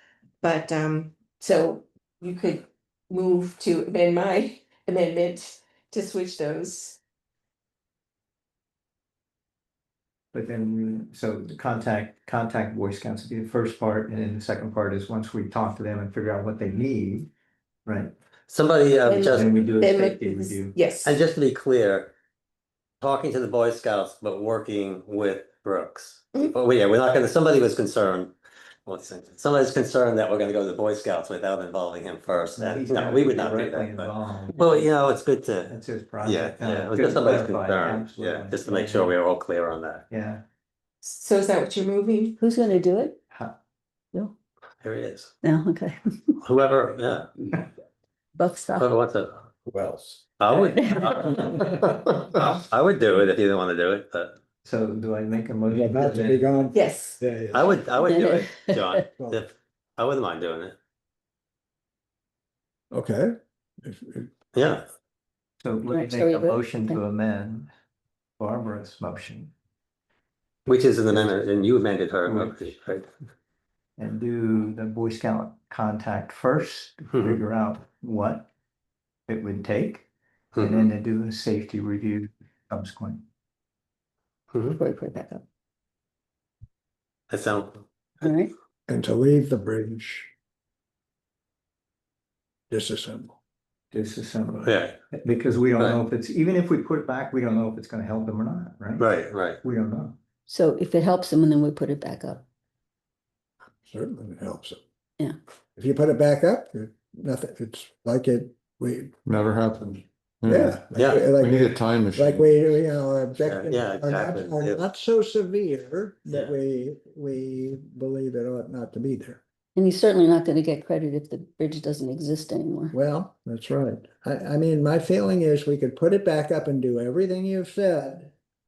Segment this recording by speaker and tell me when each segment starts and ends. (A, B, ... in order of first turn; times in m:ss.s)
0:00.4-0:07.0 A
0:10.3-0:17.3 B
0:17.8-0:18.1 B
0:18.5-0:19.6 C
0:19.0-0:21.2 A
0:19.3-0:20.8 B
0:21.0-0:22.1 C
0:23.0-0:28.3 C
0:28.8-0:40.0 C
0:32.5-0:34.9 B
0:35.7-0:39.2 B
0:40.1-0:40.4 B
0:41.0-0:42.4 A
0:42.4-0:43.2 D
0:43.3-0:43.6 B
0:44.8-0:45.3 C
0:45.4-0:46.3 D
0:46.4-0:47.3 C
0:48.3-0:48.9 D
0:48.8-0:49.4 C
0:49.7-0:50.2 E
0:50.4-0:54.3 C
0:50.5-0:51.6 D
0:54.6-0:56.5 B
0:55.7-0:57.9 E
0:56.7-0:57.2 A
0:57.5-1:00.8 C
0:58.0-0:59.1 D
0:59.2-0:59.4 E
1:02.9-1:04.3 E
1:04.5-1:04.8 C
1:05.6-1:07.7 B
1:05.9-1:07.0 D
1:08.4-1:09.5 B
1:10.6-1:13.1 C
1:11.1-1:11.4 B
1:12.2-1:12.7 B
1:14.0-1:18.5 B
1:19.3-1:20.1 B
1:20.5-1:20.9 C
1:20.6-1:23.2 B
1:24.5-1:24.8 C
1:24.8-1:25.4 D
1:27.3-1:27.8 C
1:28.2-1:28.5 D
1:28.9-1:30.3 E
1:32.7-1:33.3 E
1:33.9-1:39.1 B
1:34.6-1:35.0 C
1:39.0-1:39.6 C
1:39.6-1:40.2 B
1:40.5-1:42.4 D
1:43.8-1:44.8 E
1:45.8-1:49.1 E
1:49.2-1:52.6 F
1:50.5-1:59.4 E
1:51.0-1:51.2 C
1:53.4-1:54.8 C
1:56.3-1:56.6 C
1:59.7-2:03.0 D
2:02.9-2:08.3 E